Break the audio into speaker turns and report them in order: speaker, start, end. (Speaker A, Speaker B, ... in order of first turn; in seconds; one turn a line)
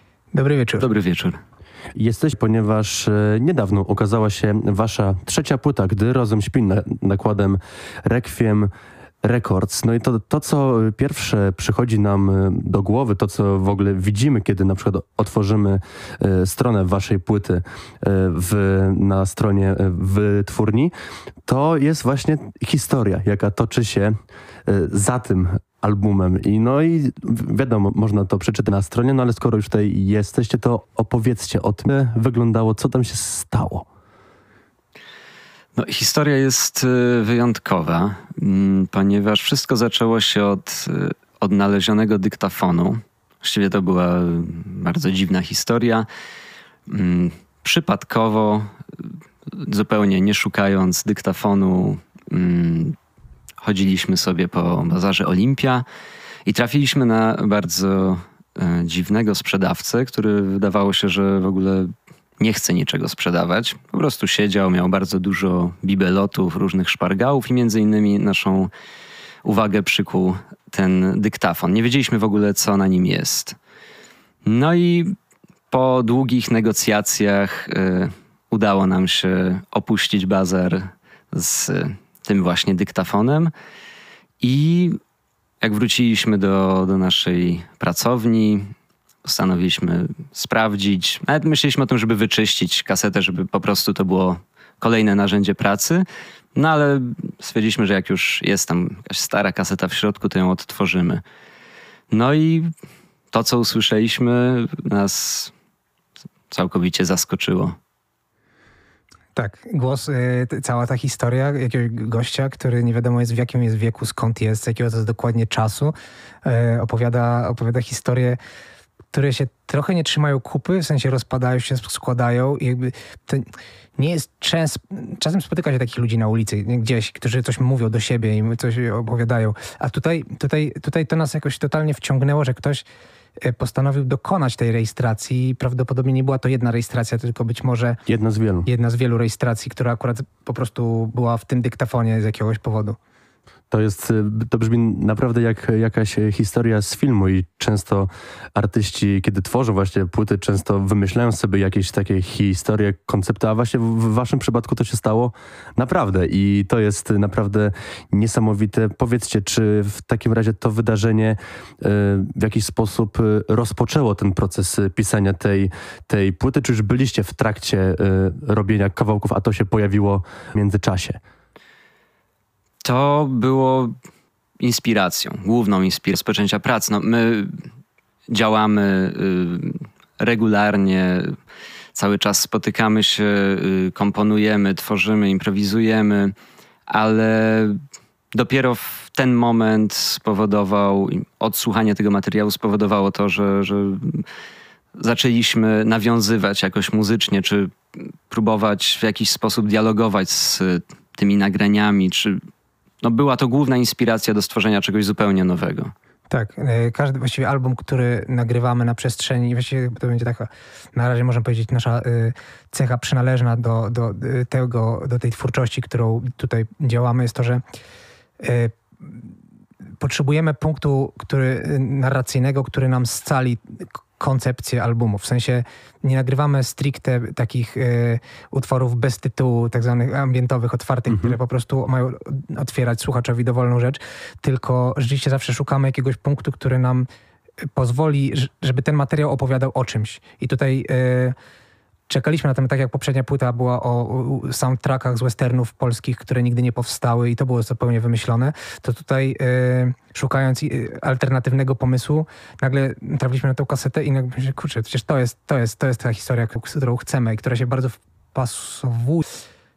Speaker A: 0.3-0.9
Speaker B: 0.8-1.4
Speaker C: 2.0-8.7
Speaker C: 9.2-20.9
Speaker C: 21.5-24.2
Speaker C: 24.7-33.9
Speaker B: 35.8-46.1
Speaker B: 46.9-48.7
Speaker B: 49.5-53.0
Speaker B: 53.6-55.9
Speaker B: 56.5-68.7
Speaker B: 69.4-73.6
Speaker B: 74.4-75.1
Speaker B: 75.7-83.5
Speaker B: 84.4-85.0
Speaker B: 85.6-88.7
Speaker B: 89.2-101.2
Speaker B: 102.1-102.7
Speaker B: 103.3-105.5
Speaker B: 106.5-107.8
Speaker A: 109.3-115.9
Speaker A: 116.5-118.4
Speaker A: 119.1-132.8
Speaker A: 133.4-138.0
Speaker C: 138.1-138.7
Speaker A: 138.7-143.0
Speaker C: 143.7-171.2
Speaker B: 172.8-173.9
Speaker B: 174.6-177.6
Speaker B: 178.3-181.4
Speaker B: 181.9-186.3
Speaker B: 186.9-187.8
Speaker B: 188.3-194.2
Speaker B: 195.0-202.3
Speaker B: 203.0-205.9
Speaker A: 206.3-217.6
Speaker A: 218.4-219.2
Speaker A: 220.0-237.1
Speaker C: 231.1-231.4
Speaker A: 237.8-241.3
Speaker A: 242.1-259.2